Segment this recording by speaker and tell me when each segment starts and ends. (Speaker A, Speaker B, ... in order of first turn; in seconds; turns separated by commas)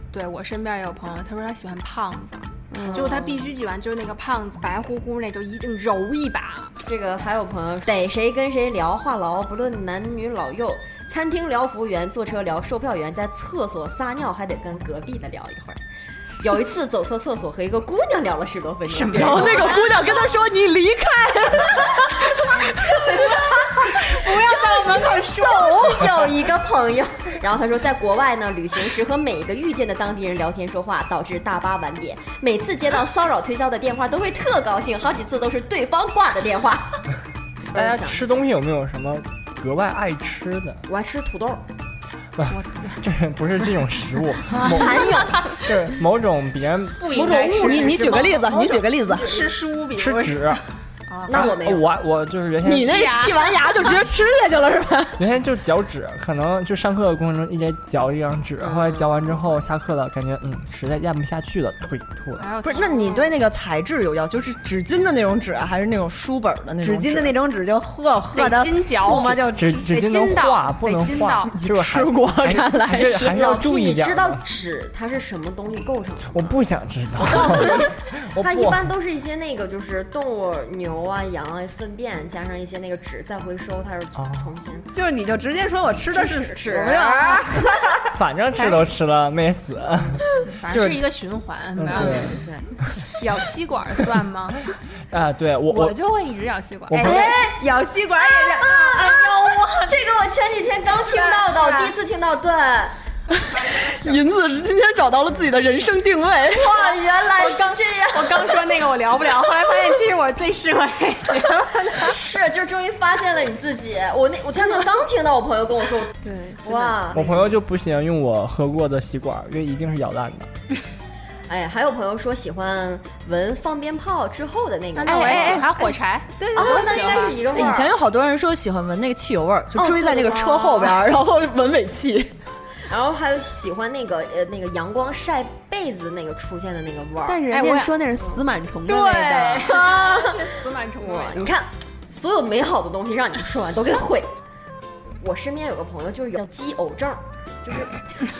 Speaker A: 0.1-6.7, Speaker B: 2.7-3.3, Speaker C: 2.8-3.3, Speaker C: 6.8-15.8, Speaker C: 16.4-19.9, Speaker A: 18.9-20.4, Speaker D: 19.1-26.0, Speaker C: 23.2-23.5, Speaker A: 23.3-25.8, Speaker C: 24.8-37.0, Speaker C: 37.7-38.2, Speaker E: 37.7-40.8, Speaker C: 40.9-41.6, Speaker E: 42.3-47.3, Speaker A: 42.5-43.0, Speaker C: 44.5-45.5, Speaker A: 44.6-45.1, Speaker A: 47.0-48.4, Speaker C: 47.0-49.5, Speaker D: 47.6-49.5, Speaker A: 49.1-51.5, Speaker E: 49.9-50.6, Speaker C: 51.2-51.9, Speaker E: 51.3-53.2, Speaker D: 52.6-55.2, Speaker A: 52.8-54.0, Speaker E: 55.2-62.5, Speaker B: 58.7-59.5, Speaker A: 62.4-63.3, Speaker D: 62.6-67.4, Speaker B: 66.8-69.8, Speaker A: 68.3-71.5, Speaker E: 69.3-74.4, Speaker D: 71.5-73.4, Speaker C: 73.3-76.6, Speaker E: 76.3-78.9, Speaker C: 77.2-84.9, Speaker E: 84.2-84.5, Speaker B: 84.9-88.0, Speaker C: 86.1-87.5, Speaker E: 88.1-91.1, Speaker A: 90.4-92.4, Speaker E: 91.8-93.0, Speaker C: 91.9-92.7, Speaker A: 93.1-94.6, Speaker E: 95.1-96.0, Speaker A: 95.7-97.3, Speaker E: 96.9-97.3, Speaker B: 97.0-99.2, Speaker C: 97.0-97.6, Speaker C: 98.2-103.0, Speaker A: 98.9-100.0, Speaker B: 101.0-101.9, Speaker D: 103.4-106.9, Speaker C: 106.5-108.7, Speaker A: 107.2-112.1, Speaker C: 112.0-117.5, Speaker B: 116.2-117.2, Speaker E: 117.1-120.5, Speaker C: 121.5-125.7, Speaker A: 125.0-127.3, Speaker B: 125.0-127.2, Speaker C: 126.5-127.9, Speaker D: 127.4-132.3, Speaker C: 129.7-130.9, Speaker C: 132.9-137.4, Speaker B: 137.3-139.7, Speaker A: 137.5-137.9, Speaker C: 138.9-144.3, Speaker A: 138.9-141.5, Speaker C: 145.2-148.1